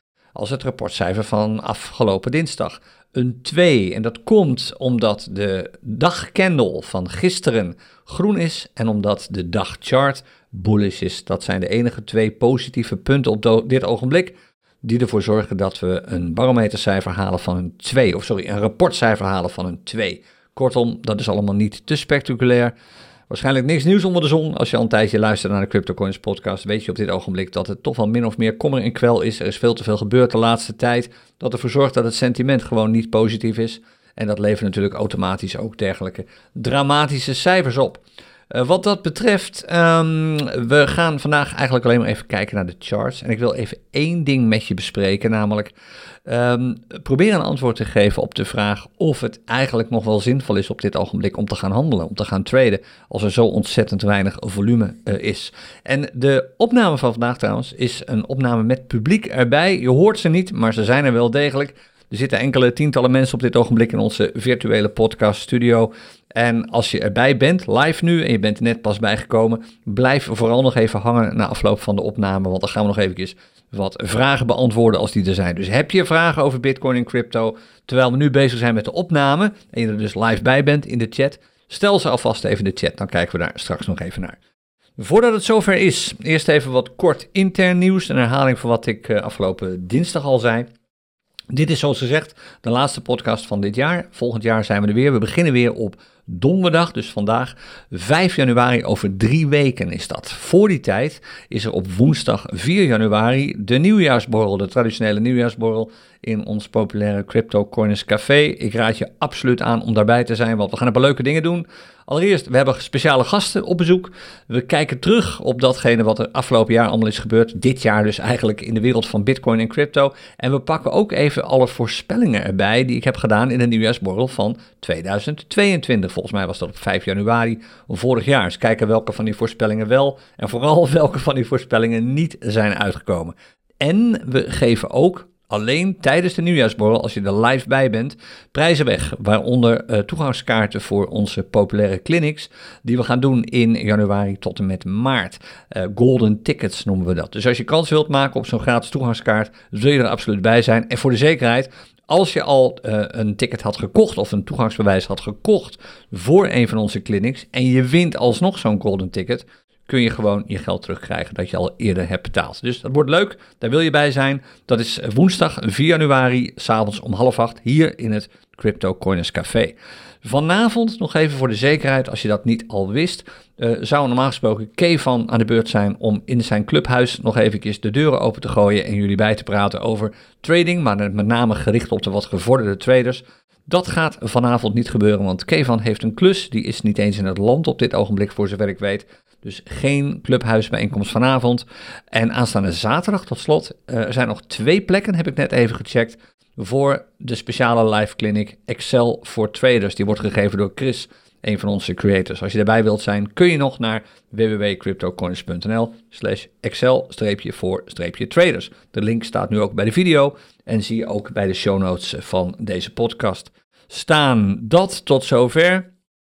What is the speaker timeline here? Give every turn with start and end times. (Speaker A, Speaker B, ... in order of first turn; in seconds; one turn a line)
Speaker A: 0.3-22.7
Speaker A: 23.3-45.7
Speaker A: 46.2-84.4
Speaker A: 85.0-90.7
Speaker A: 91.5-215.9